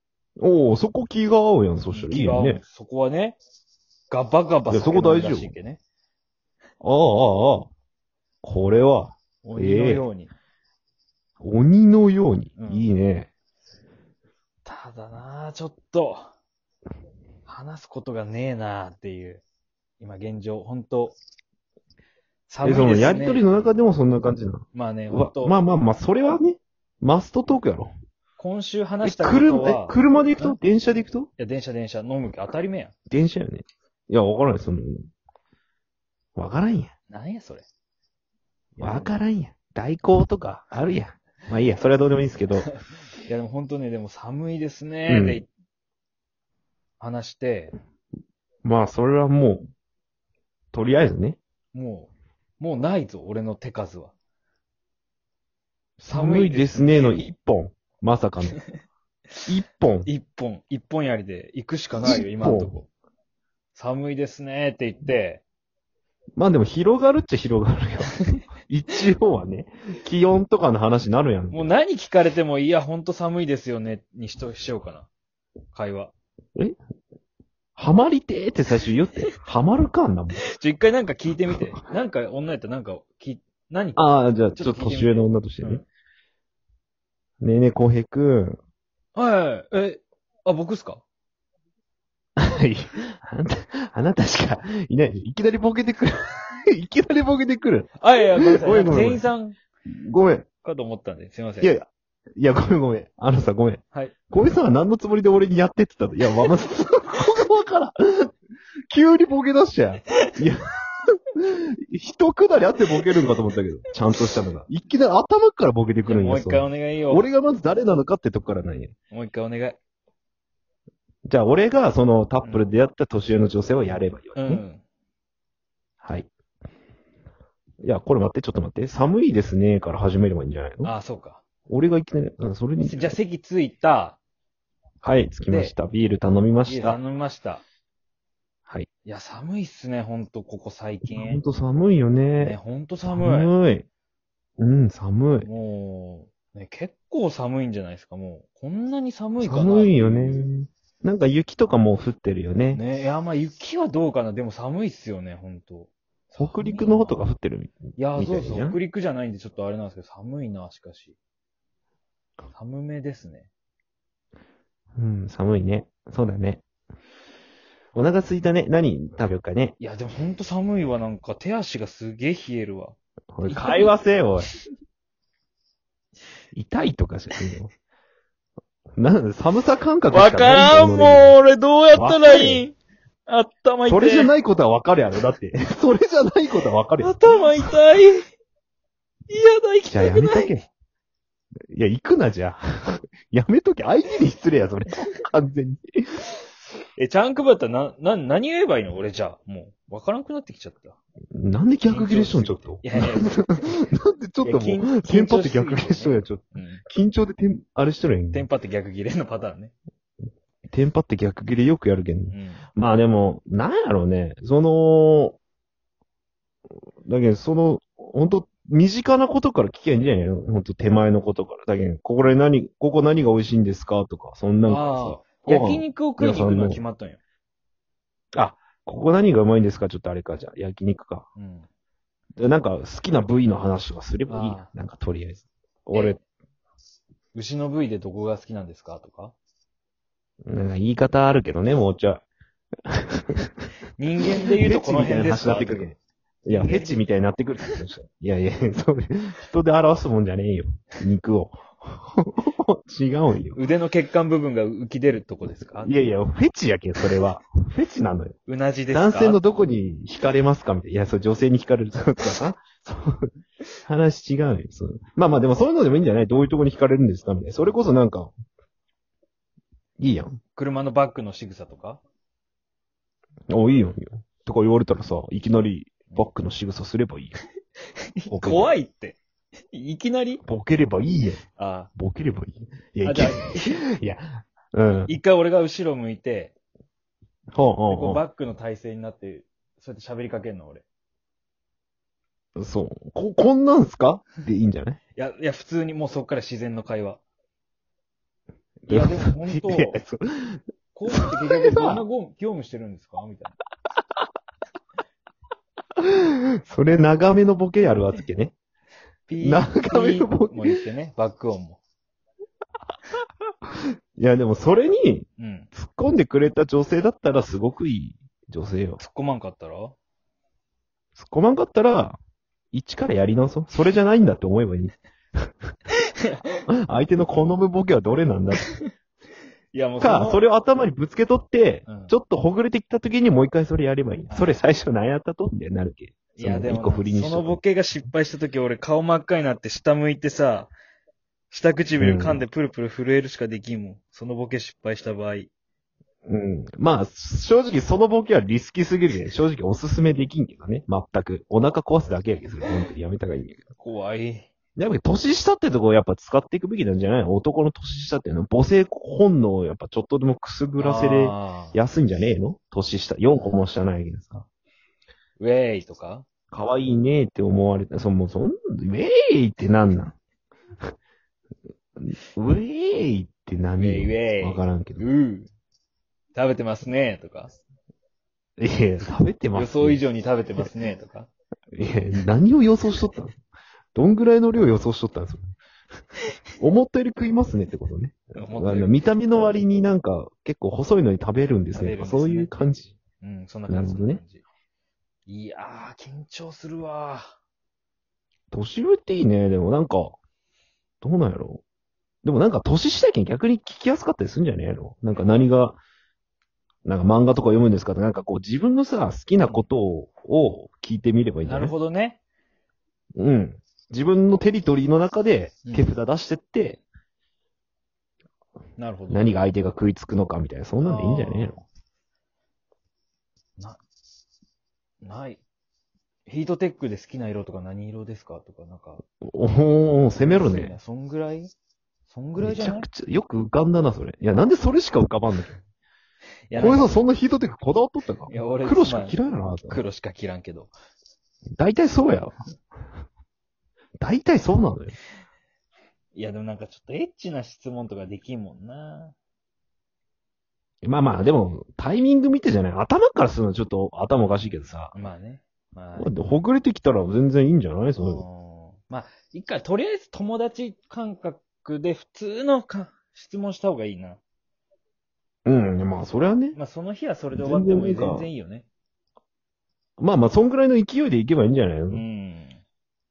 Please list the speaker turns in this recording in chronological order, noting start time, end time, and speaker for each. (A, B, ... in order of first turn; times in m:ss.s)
0:00.4-0:02.6 A
0:01.9-0:03.4 B
0:04.1-0:05.8 B
0:04.7-0:05.5 A
0:06.8-0:07.7 A
0:08.4-0:10.0 A
0:09.4-0:10.3 B
0:11.4-0:13.3 A
0:12.6-0:12.9 B
0:14.6-0:16.3 B
0:17.4-0:19.4 B
0:20.0-0:21.1 B
0:22.5-0:23.5 B
0:22.6-0:27.9 A
0:24.7-0:25.6 B
0:28.4-0:30.6 B
0:29.0-0:31.3 A
0:31.4-0:32.9 B
0:33.1-0:35.0 A
0:36.4-0:36.9 A
0:37.1-0:37.6 B
0:38.8-0:39.2 B
0:38.8-0:42.7 A
0:42.6-0:45.5 B
0:45.1-0:45.4 A
0:47.0-0:47.7 B
0:48.6-0:49.6 A
0:50.7-0:51.4 A
0:51.7-0:54.1 B
0:56.0-0:58.6 A
0:56.1-0:57.3 B
0:59.5-1:00.1 A
1:00.0-1:02.9 B
1:02.0-1:02.8 A
1:03.7-1:05.4 B
1:06.4-1:11.7 A
1:11.5-1:15.1 B
1:15.7-1:16.1 B
1:17.8-1:20.4 A
1:20.4-1:24.0 B
1:24.0-1:25.8 A
1:24.6-1:25.8 B
1:27.4-1:28.6 A
1:29.2-1:31.0 B
1:32.4-1:39.2 A
1:38.0-1:39.6 B
1:39.9-1:40.4 A
1:40.6-1:41.7 B
1:41.6-1:48.3 A
1:48.9-1:50.6 A
1:51.4-1:58.9 A
1:56.0-1:57.2 B
1:59.1-1:59.8 B
2:01.2-2:04.6 A
2:02.4-2:02.7 B
2:04.4-2:04.8 B
2:06.0-2:06.3 A
2:07.8-2:10.9 A
2:10.8-2:11.4 B
2:11.7-2:13.2 A
2:12.8-2:14.2 B
2:15.0-2:17.0 A
2:15.5-2:15.7 B
2:16.6-2:17.6 B
2:19.0-2:21.4 B
2:21.1-2:23.8 A
2:22.4-2:23.5 B
2:24.6-2:25.5 A
2:25.4-2:30.5 B
2:29.4-2:32.8 A
2:32.7-2:37.3 B
2:36.4-2:38.8 A
2:38.0-2:41.2 B
2:42.5-2:43.5 B
2:45.0-2:46.6 A
2:47.9-2:49.7 A
2:49.8-2:53.9 B
2:53.3-2:54.5 A
2:56.5-2:57.7 A
2:59.0-3:01.3 A
3:00.1-3:02.7 B
3:01.9-3:02.6 A
3:03.3-3:04.3 B
3:03.9-3:07.7 A
3:07.0-3:08.3 B
3:09.3-3:10.6 B
3:09.9-3:10.6 A
3:11.7-3:16.2 A
3:17.0-3:21.0 B
3:21.3-3:28.5 A
3:21.9-3:23.8 B
3:24.4-3:26.8 B
3:28.3-3:29.7 B
3:30.7-3:35.4 A
3:32.3-3:32.6 B
3:37.0-3:46.8 A
3:44.7-3:47.2 B
3:48.3-3:51.2 A
3:51.4-3:51.7 B
3:52.4-3:56.2 A
3:54.3-3:54.7 B
3:55.9-3:56.2 B
3:57.3-3:59.3 B
4:00.5-4:02.2 A
4:02.9-4:03.5 A
4:04.0-4:05.9 B
4:04.6-4:13.6 A
4:06.5-4:07.0 B
4:13.5-4:15.9 B
4:15.8-4:18.3 A
4:18.5-4:19.4 B
4:18.9-4:23.3 A
4:23.8-4:28.3 A
4:30.0-4:30.4 A
4:30.5-4:32.0 B
4:33.5-4:37.4 A
4:38.2-4:39.2 B
4:38.3-4:38.7 A
4:39.7-4:40.4 B
4:40.5-4:41.4 A
4:41.6-4:41.9 B
4:42.0-4:45.1 A
4:43.0-4:43.8 B
4:45.1-4:46.5 B
4:47.5-4:48.2 A
4:47.9-4:50.8 B
4:52.6-4:55.0 A
4:55.2-4:57.2 B
4:58.9-5:00.6 A
4:58.9-5:00.0 B
5:00.9-5:03.6 B
5:01.1-5:02.0 A
5:06.0-5:08.5 A
5:09.3-5:11.8 B
5:09.4-5:10.8 A
5:14.2-5:19.0 A
5:15.4-5:15.7 B
5:19.0-5:20.0 B
5:21.2-5:22.2 A
5:22.7-5:25.0 A
5:26.7-5:28.6 A
5:28.6-5:28.9 B
5:29.7-5:30.4 B
5:30.0-5:37.6 A
5:31.8-5:32.1 B
5:34.3-5:34.6 B
5:36.4-5:40.7 B
5:41.5-5:45.5 B
5:42.0-5:42.4 A
5:46.3-5:53.6 A
5:53.8-5:54.5 B
5:54.8-6:04.4 A
6:00.8-6:01.8 B
6:05.4-6:06.2 B
6:06.5-6:10.2 A
6:12.0-6:15.0 A
6:13.8-6:15.5 B
6:16.3-6:17.6 B
6:18.6-6:20.0 A
6:19.5-6:21.3 B
6:21.7-6:23.4 A
6:23.9-6:25.5 A
6:26.6-6:33.0 A
6:28.3-6:29.0 B
6:31.7-6:32.5 B
6:33.2-6:34.4 B
6:33.7-6:34.2 A
6:35.3-6:37.3 B
6:38.5-6:40.2 A
6:41.0-6:41.6 A
6:42.2-6:45.8 A
6:45.1-6:45.5 B
6:46.8-6:51.7 A
6:51.4-6:52.2 B
6:53.2-6:56.8 A
6:55.6-6:55.9 B
6:58.8-6:59.3 B
6:59.1-7:01.6 A
7:00.8-7:01.6 B
7:05.0-7:05.4 B
7:06.3-7:09.0 B
7:09.2-7:10.8 A
7:10.2-7:11.5 B
7:12.1-7:12.9 B
7:12.4-7:15.6 A
7:16.5-7:17.0 B
7:16.5-7:19.8 A
7:18.3-7:20.7 B
7:21.6-7:22.3 A
7:24.0-7:25.0 A
7:26.1-7:29.2 B
7:30.8-7:34.9 A
7:34.9-7:36.1 B
7:36.0-7:38.2 A
7:38.0-7:44.2 B
7:45.4-7:46.6 A
7:46.5-7:48.6 B
7:47.3-7:48.3 A
7:50.0-7:52.0 A
7:51.9-7:52.6 B